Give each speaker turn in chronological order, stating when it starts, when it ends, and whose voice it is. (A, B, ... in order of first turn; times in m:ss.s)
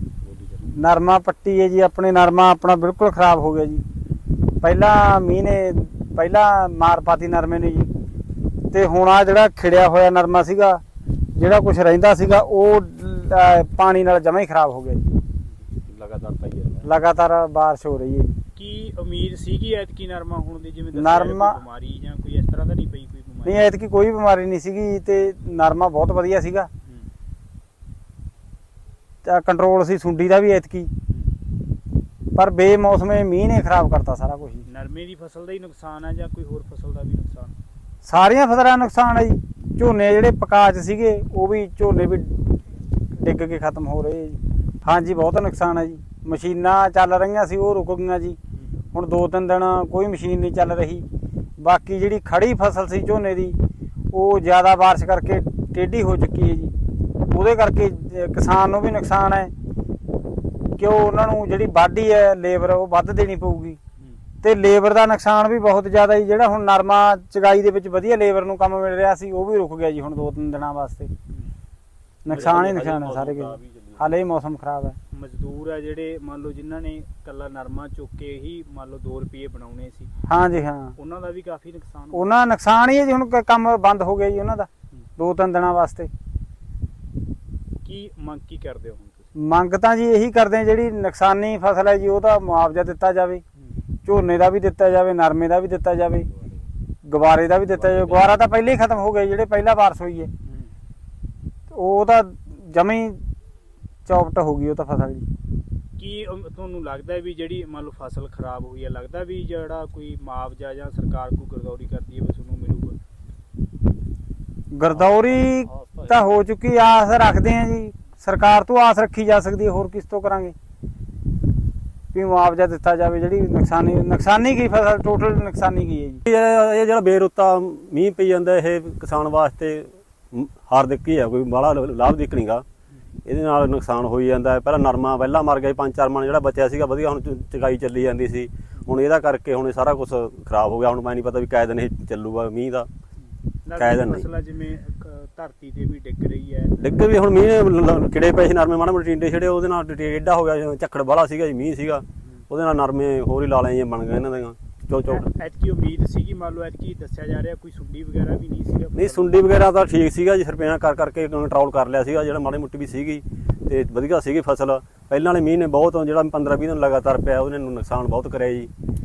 0:00.7-0:03.9 A
0:04.6-0:07.9 A
0:08.7-0:10.8 A
0:11.4-0:15.2 A
0:15.9-0:16.9 B
0:16.8-0:18.4 A
0:18.6-0:23.7 C
0:20.9-0:21.6 A
0:23.4-0:26.7 A
0:29.2-0:30.9 A
0:32.4-0:34.7 A
0:34.7-0:37.6 C
0:38.0-0:42.6 A
0:43.1-0:48.4 A
0:48.9-0:51.1 A
0:51.6-0:53.6 A
0:54.1-0:56.8 A
0:57.3-0:59.5 A
1:00.8-1:03.8 A
1:04.4-1:11.1 A
1:12.2-1:15.0 A
1:12.3-1:14.0 B
1:15.1-1:20.1 C
1:20.3-1:21.0 A
1:21.0-1:22.3 C
1:22.1-1:26.1 A
1:27.8-1:29.3 C
1:29.4-1:33.4 A
1:34.0-1:36.3 A
1:37.0-1:40.3 A
1:40.4-1:40.7 C
1:41.7-1:43.2 A
1:44.1-1:45.3 A
1:46.0-1:53.0 C
1:54.7-2:00.6 A
1:55.0-1:56.1 B
2:02.1-2:06.2 A
2:06.3-2:12.6 B
2:13.3-2:22.9 B
2:23.6-2:26.8 C
2:23.8-2:24.3 B
2:26.8-2:35.3 B
2:35.1-2:39.4 C
2:39.0-2:48.7 B